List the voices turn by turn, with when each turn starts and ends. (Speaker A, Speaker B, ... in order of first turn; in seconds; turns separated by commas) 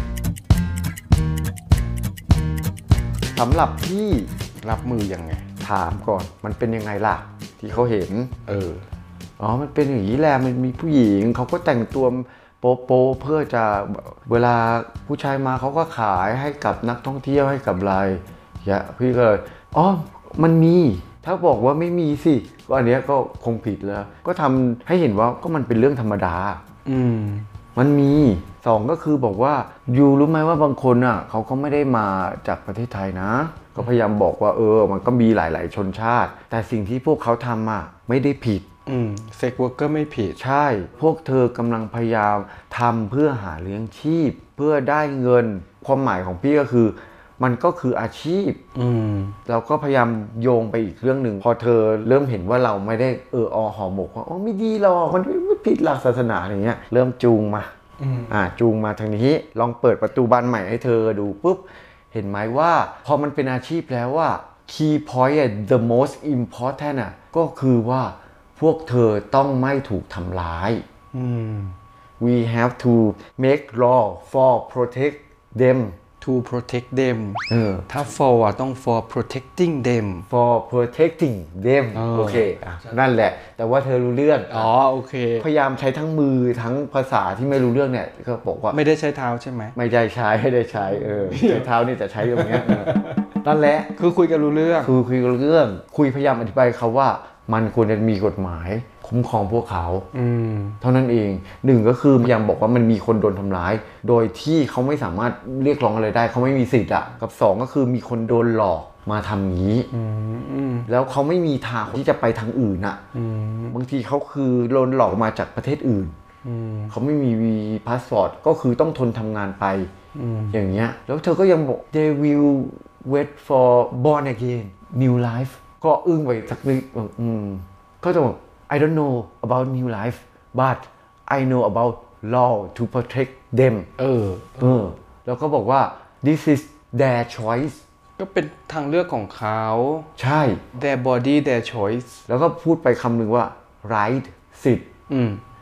Speaker A: 3.3-4.3, Speaker B: 4.6-5.4, Speaker A: 5.6-8.3, Speaker B: 8.4-8.8, Speaker A: 9.4-26.6, Speaker B: 26.9-27.5, Speaker A: 27.7-38.6, Speaker B: 38.9-40.4, Speaker A: 40.4-48.6, Speaker B: 48.7-49.4, Speaker A: 49.5-57.7, Speaker B: 58.0-58.4, Speaker A: 58.3-70.8, Speaker B: 71.1-71.7, Speaker A: 72.2-76.0, Speaker B: 76.2-80.3, Speaker A: 77.5-77.9, Speaker A: 80.3-84.7, Speaker B: 81.9-82.9, Speaker B: 84.5-85.5, Speaker A: 85.4-88.8, Speaker B: 88.7-89.7, Speaker A: 89.7-92.9, Speaker B: 91.2-91.7, Speaker B: 92.2-93.2, Speaker A: 93.4-93.9, Speaker B: 94.0-94.9, Speaker A: 94.8-100.1, Speaker B: 100.1-100.8, Speaker A: 100.8-109.9, Speaker B: 109.9-110.9, Speaker A: 110.9-113.0, Speaker B: 113.1-113.8, Speaker A: 113.7-116.1, Speaker B: 116.4-116.9, Speaker A: 116.9-119.9, Speaker B: 120.1-120.6, Speaker A: 120.5-133.9, Speaker B: 134.0-134.8, Speaker A: 134.6-137.8, Speaker B: 138.2-140.1, Speaker A: 140.2-140.6, Speaker B: 140.7-142.2, Speaker A: 142.3-144.9, Speaker B: 145.1-145.4